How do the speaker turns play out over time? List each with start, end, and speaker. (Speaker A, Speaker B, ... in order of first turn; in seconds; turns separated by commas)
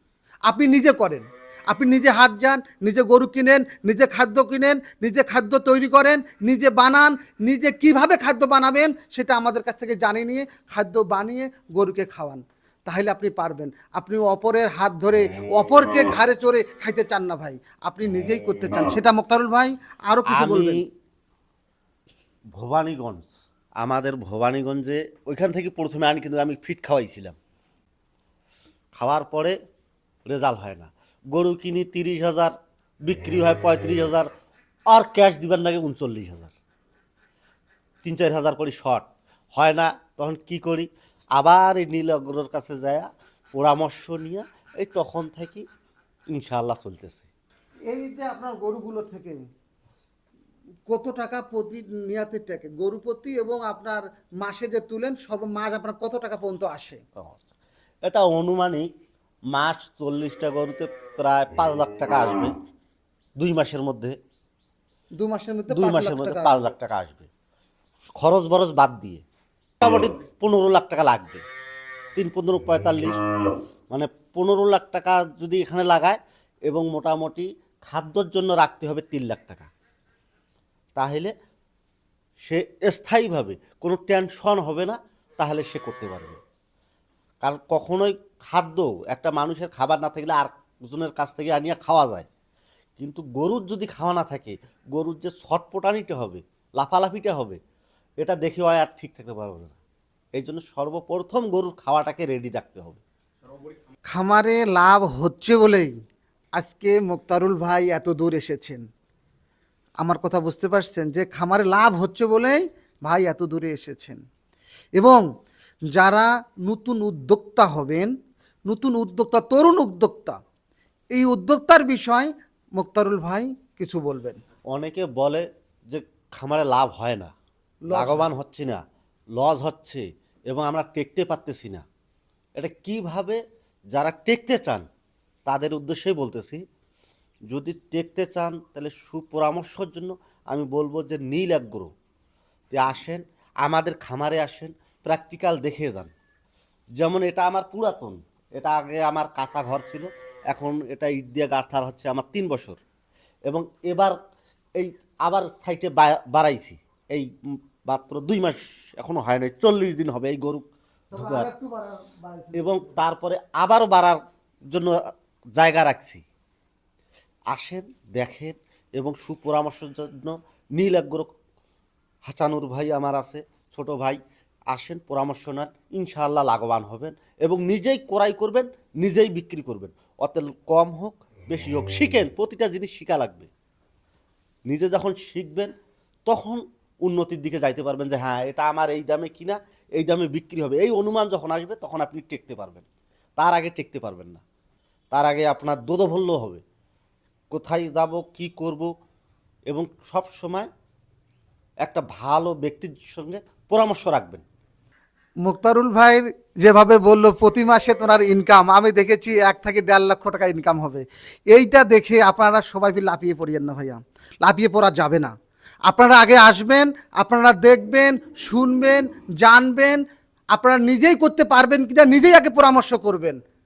Speaker A: 0.5-20.8, Speaker B: 20.3-20.8, Speaker B: 22.5-23.3, Speaker B: 23.8-27.4, Speaker B: 28.9-29.6, Speaker B: 30.2-32.5, Speaker B: 33.0-34.3, Speaker B: 34.9-36.5, Speaker B: 38.0-45.6, Speaker B: 46.3-47.3, Speaker A: 47.9-49.4, Speaker A: 50.9-57.0, Speaker B: 57.2-57.4, Speaker B: 58.0-58.9, Speaker B: 59.5-62.5, Speaker B: 63.4-64.2, Speaker A: 65.2-66.5, Speaker B: 65.7-67.3, Speaker B: 68.2-69.2, Speaker B: 69.8-71.4, Speaker B: 72.2-73.2, Speaker B: 73.9-79.7, Speaker B: 81.0-81.3, Speaker B: 82.5-86.4, Speaker B: 87.4-92.3, Speaker B: 93.0-97.6, Speaker B: 98.2-99.8, Speaker B: 100.3-103.0, Speaker A: 104.1-105.9, Speaker A: 106.6-108.8, Speaker A: 110.0-114.2, Speaker A: 115.0-115.2, Speaker A: 115.9-118.1, Speaker A: 118.7-120.4, Speaker A: 121.1-124.4, Speaker B: 124.7-127.3, Speaker A: 127.9-128.3, Speaker B: 127.9-128.8, Speaker B: 129.3-131.8, Speaker B: 132.6-133.4, Speaker B: 133.9-134.8, Speaker B: 135.4-136.6, Speaker B: 137.5-141.9, Speaker B: 142.7-146.1, Speaker B: 147.0-152.8, Speaker B: 153.5-154.2, Speaker B: 154.8-157.3, Speaker B: 157.9-161.5, Speaker A: 161.1-163.0, Speaker B: 162.5-164.9, Speaker B: 165.6-166.2, Speaker B: 167.5-171.3, Speaker B: 172.2-174.2, Speaker B: 174.7-183.5, Speaker B: 184.7-185.7, Speaker B: 186.3-192.8, Speaker B: 193.4-194.4, Speaker B: 195.1-196.6, Speaker B: 197.5-198.9, Speaker B: 199.7-200.7, Speaker B: 201.8-204.4, Speaker A: 205.4-215.3, Speaker A: 215.9-220.0, Speaker A: 220.5-223.4